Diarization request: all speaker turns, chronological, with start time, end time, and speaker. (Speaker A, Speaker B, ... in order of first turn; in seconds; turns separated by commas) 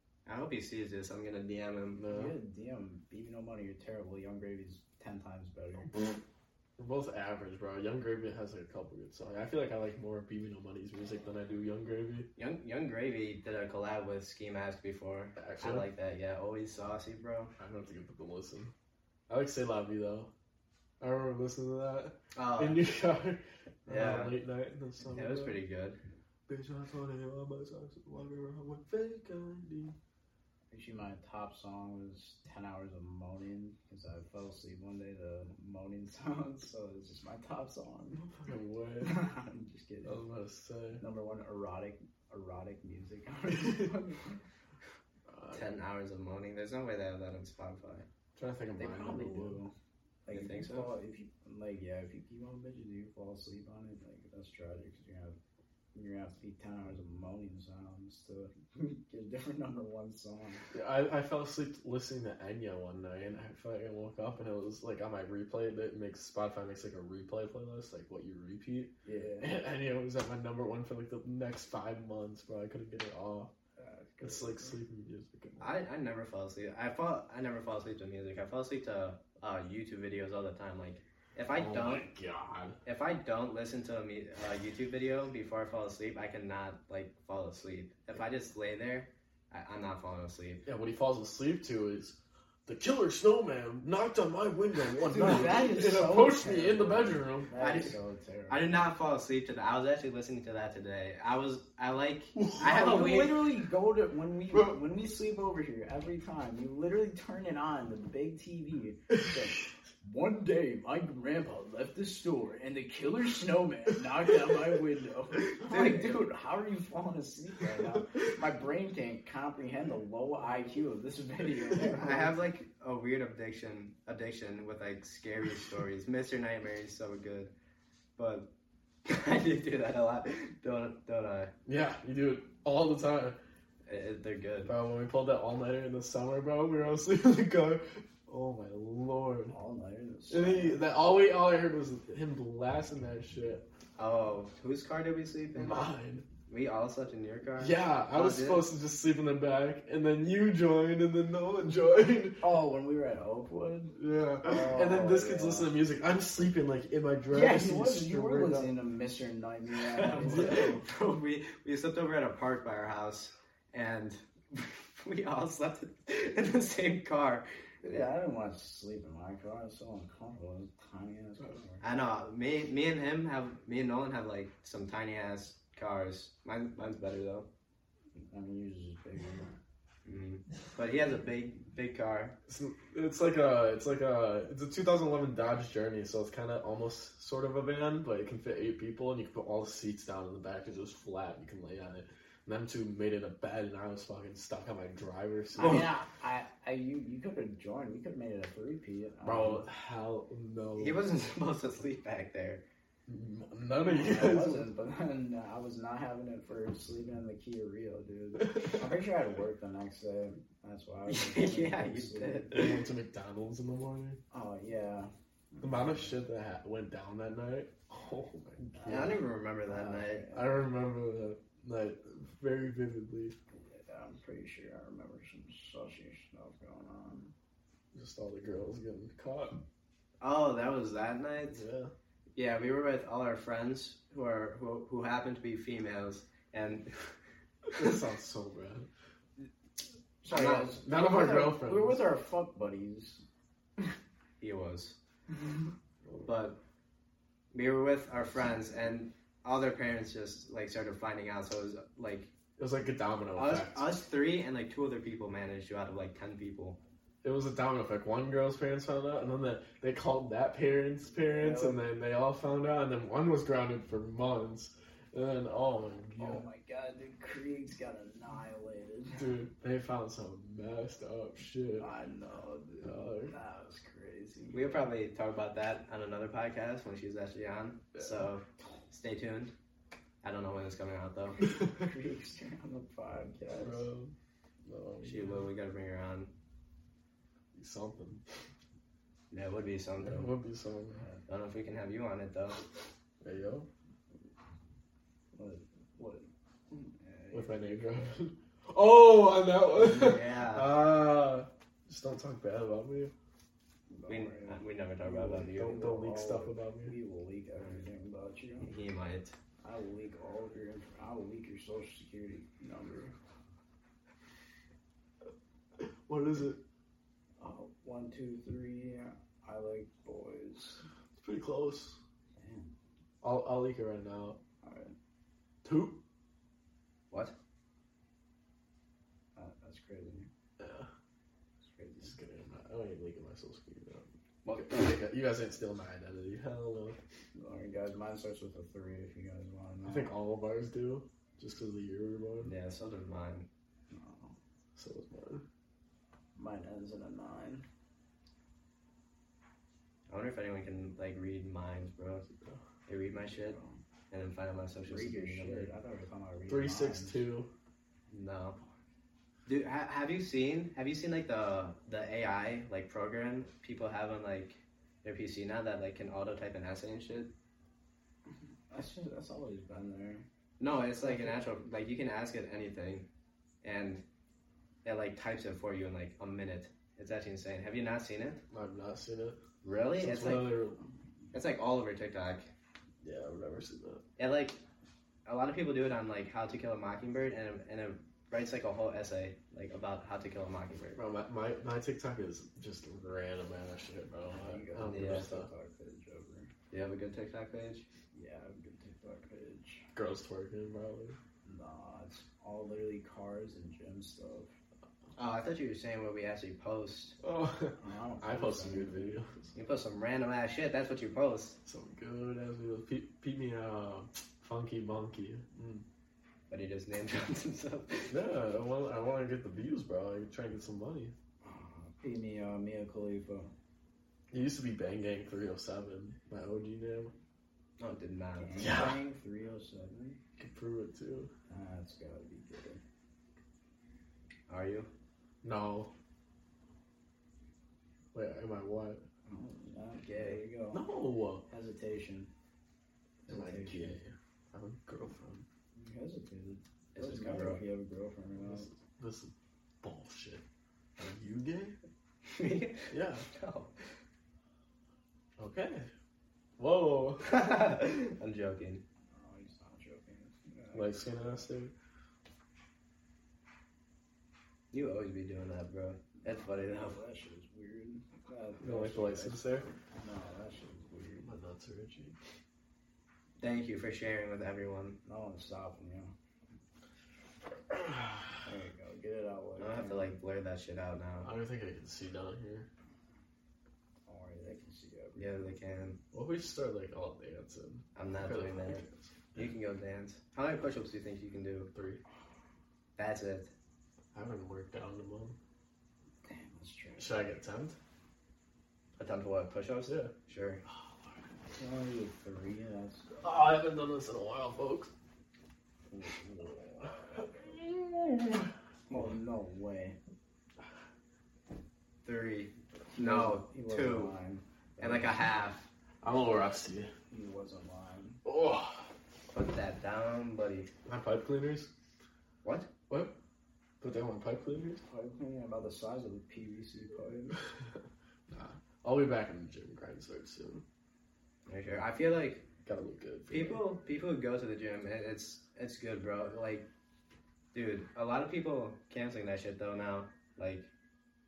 Speaker A: 0.3-2.0, Speaker B: 2.0-2.4, Speaker C: 2.1-6.1, Speaker B: 6.8-12.3, Speaker A: 12.4-17.5, Speaker B: 15.4-15.9, Speaker B: 17.6-18.7, Speaker B: 19.3-20.3, Speaker B: 21.0-25.6, Speaker A: 22.4-22.8, Speaker A: 23.9-24.4, Speaker A: 25.1-26.0, Speaker B: 26.5-30.0, Speaker C: 30.7-38.4, Speaker B: 38.4-39.2, Speaker C: 39.0-40.2, Speaker B: 40.0-41.0, Speaker C: 41.0-44.4, Speaker B: 43.5-43.9, Speaker B: 45.3-45.7, Speaker A: 45.5-48.1, Speaker B: 48.4-49.6, Speaker C: 48.8-49.7, Speaker C: 50.3-55.4, Speaker A: 50.3-50.9, Speaker C: 55.9-60.7, Speaker B: 60.7-73.5, Speaker C: 69.0-69.6, Speaker C: 73.8-74.8, Speaker B: 74.2-75.8, Speaker A: 75.6-82.1, Speaker B: 81.5-82.8, Speaker A: 82.8-90.6, Speaker B: 90.7-97.6, Speaker C: 95.0-98.8, Speaker A: 97.6-98.0, Speaker A: 98.5-103.4, Speaker B: 102.3-102.9, Speaker C: 102.6-122.4, Speaker A: 115.6-116.2, Speaker A: 121.9-127.5, Speaker A: 128.2-128.5, Speaker A: 129.1-131.5, Speaker B: 131.7-133.4, Speaker A: 133.9-134.7, Speaker B: 134.7-139.6, Speaker C: 139.5-140.9, Speaker B: 140.3-143.7, Speaker A: 144.0-145.9, Speaker B: 145.6-146.3, Speaker A: 146.5-148.7, Speaker B: 147.6-152.5, Speaker C: 152.4-155.7, Speaker B: 154.0-158.7, Speaker C: 157.3-160.8, Speaker A: 159.8-168.1, Speaker B: 160.2-160.8, Speaker C: 167.8-171.8, Speaker A: 171.8-177.5, Speaker C: 178.2-179.5, Speaker A: 180.1-182.4, Speaker B: 182.5-196.0, Speaker C: 195.6-199.7, Speaker B: 199.2-201.0, Speaker A: 200.8-202.7, Speaker B: 203.1-204.7, Speaker C: 203.8-212.5, Speaker B: 208.5-208.8, Speaker A: 211.1-212.8, Speaker B: 212.5-214.2, Speaker C: 214.3-216.2, Speaker B: 215.6-219.2, Speaker C: 218.8-220.6, Speaker A: 218.9-220.3, Speaker B: 220.3-223.4, Speaker C: 223.7-227.3, Speaker B: 227.9-229.6, Speaker A: 230.2-231.6, Speaker B: 231.5-231.9, Speaker A: 232.4-237.2, Speaker B: 237.8-238.9, Speaker C: 240.2-243.2, Speaker A: 240.3-240.6, Speaker B: 240.3-242.0, Speaker A: 244.4-245.0, Speaker B: 246.1-246.3, Speaker A: 246.2-246.6, Speaker A: 247.5-252.3, Speaker B: 252.6-253.9, Speaker A: 253.4-256.8, Speaker B: 257.2-266.5, Speaker C: 261.2-261.8, Speaker C: 266.2-269.4, Speaker B: 269.2-271.9, Speaker C: 271.8-274.9, Speaker B: 272.8-273.3, Speaker A: 274.5-279.5, Speaker B: 277.9-278.3, Speaker A: 280.2-281.4, Speaker C: 281.7-283.9, Speaker B: 283.5-284.1, Speaker B: 284.6-285.5, Speaker A: 285.0-286.3, Speaker B: 287.5-288.2, Speaker A: 289.3-290.3, Speaker B: 290.0-291.1, Speaker A: 291.3-292.6, Speaker B: 293.2-293.7, Speaker C: 295.3-297.8, Speaker B: 297.3-303.1, Speaker A: 299.7-300.7, Speaker C: 303.9-308.7, Speaker A: 304.1-305.8, Speaker B: 305.2-307.0, Speaker A: 308.6-309.4, Speaker C: 309.6-313.1, Speaker B: 315.8-316.6, Speaker C: 317.4-320.9, Speaker B: 321.2-322.0, Speaker C: 322.4-322.7, Speaker B: 323.2-324.4, Speaker C: 324.6-324.9, Speaker B: 325.6-326.0, Speaker C: 329.4-330.3, Speaker B: 330.6-330.9, Speaker C: 331.6-332.1, Speaker B: 332.0-337.0, Speaker A: 334.4-334.9, Speaker C: 337.4-340.1, Speaker B: 339.8-342.5, Speaker A: 342.4-343.5, Speaker C: 343.9-344.4, Speaker B: 344.8-345.5, Speaker C: 346.4-347.7, Speaker A: 350.1-352.3, Speaker A: 352.9-353.6, Speaker C: 353.3-353.8, Speaker A: 354.1-355.7, Speaker C: 354.8-357.2, Speaker B: 356.5-357.5, Speaker A: 358.1-358.6, Speaker A: 359.5-367.3, Speaker C: 368.7-370.3, Speaker A: 370.6-373.1, Speaker A: 373.6-374.0, Speaker A: 374.9-378.4, Speaker B: 378.5-379.4, Speaker A: 379.6-380.6, Speaker B: 379.9-380.8, Speaker A: 381.3-382.5, Speaker B: 383.0-384.0, Speaker A: 384.2-384.6, Speaker A: 385.2-391.0, Speaker B: 391.0-395.5, Speaker C: 394.3-396.5, Speaker A: 394.8-395.4, Speaker A: 396.7-397.9, Speaker C: 398.1-399.9, Speaker B: 399.9-401.2, Speaker C: 401.4-404.5, Speaker A: 405.2-407.2, Speaker B: 407.2-409.5, Speaker C: 407.8-409.2, Speaker A: 409.6-411.6, Speaker B: 411.6-415.9, Speaker A: 416.5-418.2, Speaker B: 418.1-421.1, Speaker C: 421.4-423.5, Speaker B: 424.3-427.1, Speaker A: 427.8-428.8, Speaker C: 428.4-430.2, Speaker B: 428.6-429.0, Speaker B: 430.4-431.3, Speaker C: 431.5-432.8, Speaker A: 434.5-434.9, Speaker B: 435.4-435.9, Speaker B: 438.1-439.0, Speaker C: 439.3-440.9, Speaker A: 440.1-440.4, Speaker B: 440.7-441.5, Speaker C: 441.5-442.3, Speaker C: 443.3-444.0, Speaker B: 443.3-445.5, Speaker C: 445.8-448.7, Speaker A: 446.9-447.7, Speaker B: 448.4-450.4, Speaker B: 451.0-451.8, Speaker A: 452.2-453.8, Speaker B: 452.9-453.3, Speaker B: 455.4-455.9, Speaker B: 456.6-457.4, Speaker A: 457.2-458.8, Speaker C: 459.1-461.1, Speaker B: 460.7-461.7, Speaker A: 464.7-467.0, Speaker C: 466.3-471.3, Speaker B: 468.6-469.7, Speaker B: 471.2-472.2, Speaker A: 473.4-475.0, Speaker C: 475.0-476.1, Speaker B: 477.7-478.4, Speaker C: 478.4-480.1, Speaker A: 479.6-481.3, Speaker B: 481.2-482.7, Speaker C: 484.1-485.5, Speaker A: 485.2-486.0, Speaker B: 486.1-489.5, Speaker A: 487.9-488.8, Speaker A: 489.4-491.7, Speaker B: 491.7-492.0, Speaker A: 493.0-493.5, Speaker B: 494.1-495.4, Speaker C: 496.2-497.3, Speaker B: 497.0-497.8, Speaker A: 499.0-500.6, Speaker B: 499.9-500.1, Speaker B: 500.7-501.2, Speaker C: 501.6-503.2, Speaker B: 503.2-504.9, Speaker C: 505.9-507.3, Speaker B: 507.2-508.5, Speaker C: 508.9-510.0, Speaker A: 512.0-514.1, Speaker C: 512.9-515.2, Speaker A: 514.8-515.7, Speaker B: 516.0-516.9, Speaker C: 517.1-518.2, Speaker B: 518.2-518.9, Speaker A: 519.3-520.7, Speaker B: 520.9-521.7, Speaker A: 522.4-522.7, Speaker B: 522.9-523.2, Speaker B: 523.8-524.8, Speaker C: 524.9-527.4, Speaker B: 528.3-530.6, Speaker A: 531.5-532.5, Speaker B: 532.6-533.6, Speaker A: 533.3-536.7, Speaker A: 537.5-540.7